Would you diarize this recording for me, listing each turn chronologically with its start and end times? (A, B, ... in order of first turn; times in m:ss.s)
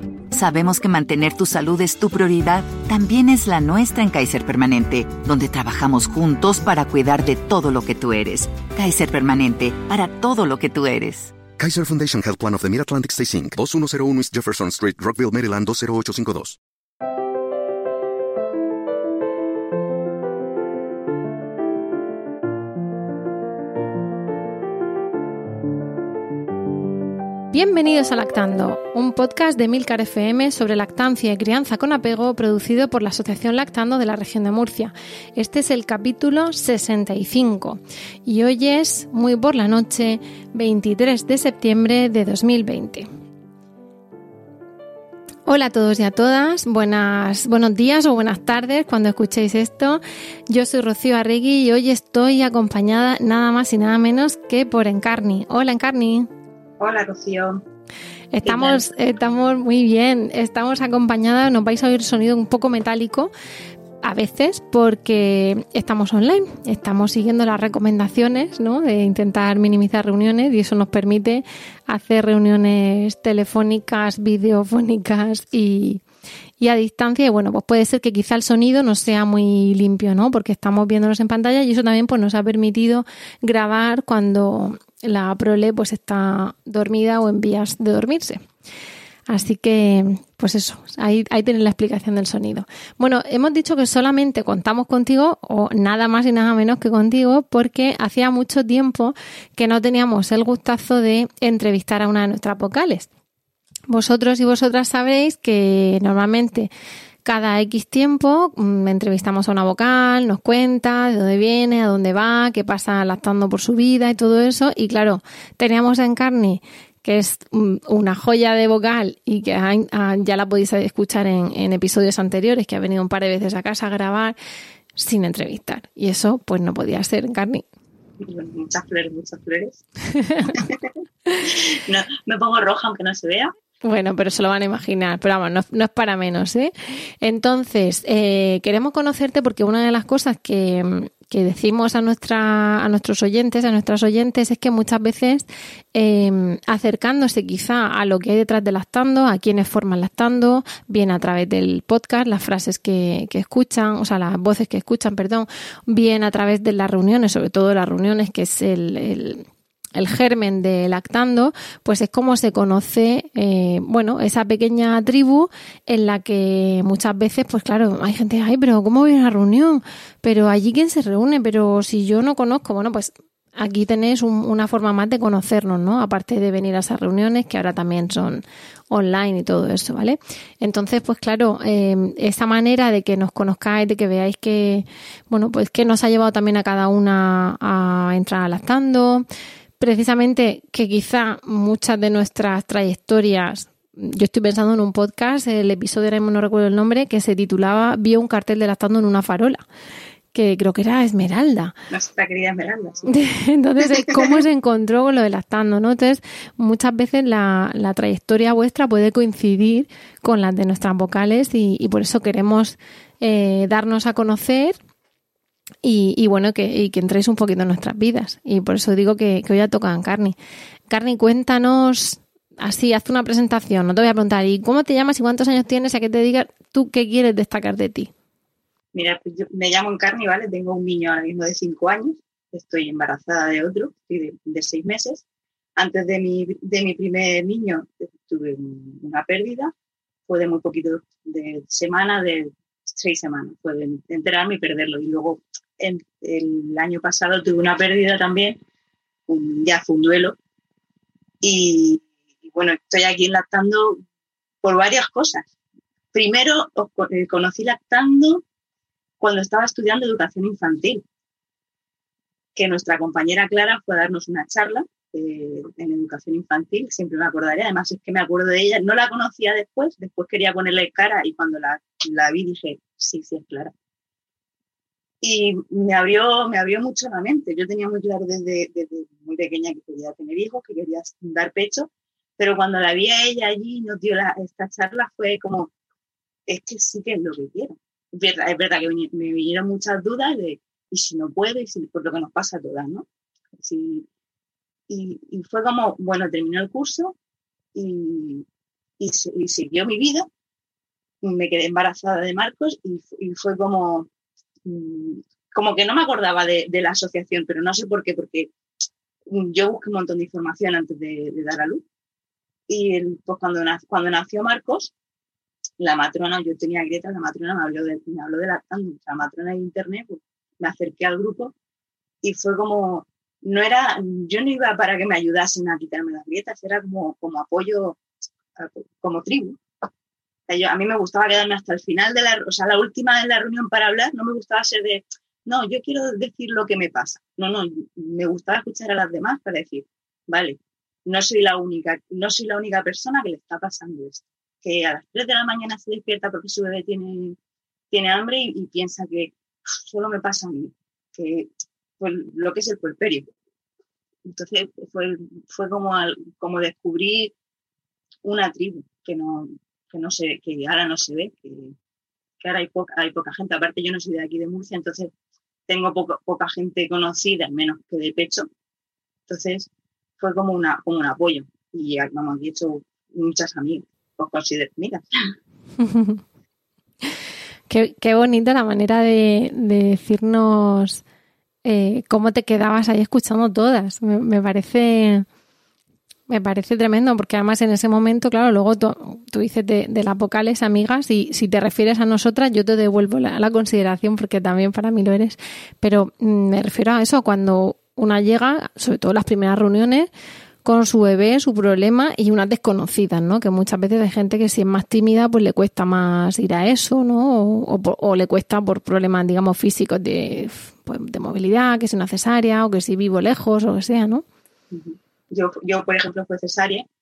0:00.3-0:11.3 A
0:11.6-0:16.6 B
0:27.5-0:43.1 C
0:45.4-0:56.3 C
0:56.8-0:57.6 D
0:58.3-1:03.3 C
0:58.4-0:58.8 D
1:04.0-1:16.0 C
1:16.6-1:28.4 C
1:29.3-1:43.1 C
1:43.9-1:46.7 C
1:47.2-2:04.4 C
2:05.0-2:07.6 C
2:08.2-2:09.8 D
2:10.5-2:10.9 D
2:11.4-2:13.5 D
2:13.8-3:09.2 C
3:09.8-3:19.6 C
3:20.3-3:21.7 C
3:21.9-3:23.1 D
3:23.1-3:34.8 C
3:23.9-3:24.3 D
3:35.8-3:40.3 C
3:40.9-3:48.1 C
3:48.9-3:55.2 D
3:55.8-3:59.7 D
4:00.3-4:08.6 D
4:09.3-4:10.4 D
4:11.4-4:14.0 D
4:14.6-4:15.5 D
4:16.1-4:18.4 D
4:19.2-4:21.0 D
4:22.5-4:33.7 D
4:35.2-4:45.7 D
4:46.5-4:54.0 D
4:54.9-4:57.2 D
4:57.7-4:58.4 D
4:59.0-5:00.3 D
5:01.2-5:04.1 D
5:04.6-5:08.5 D
5:09.3-5:11.8 D
5:12.7-5:14.9 D
5:15.8-5:21.5 D
5:22.2-5:28.0 D
5:28.6-5:29.6 D
5:30.5-5:47.4 D
5:47.9-5:53.3 D
5:54.2-5:57.3 D
5:58.2-6:01.7 D
6:02.4-6:05.1 D
6:05.7-6:08.5 D
6:09.3-6:15.3 D
6:15.8-6:16.2 C
6:17.7-6:21.0 C
6:21.6-6:25.2 C
6:26.3-6:40.1 C
6:40.6-6:54.2 C
6:54.7-6:56.8 D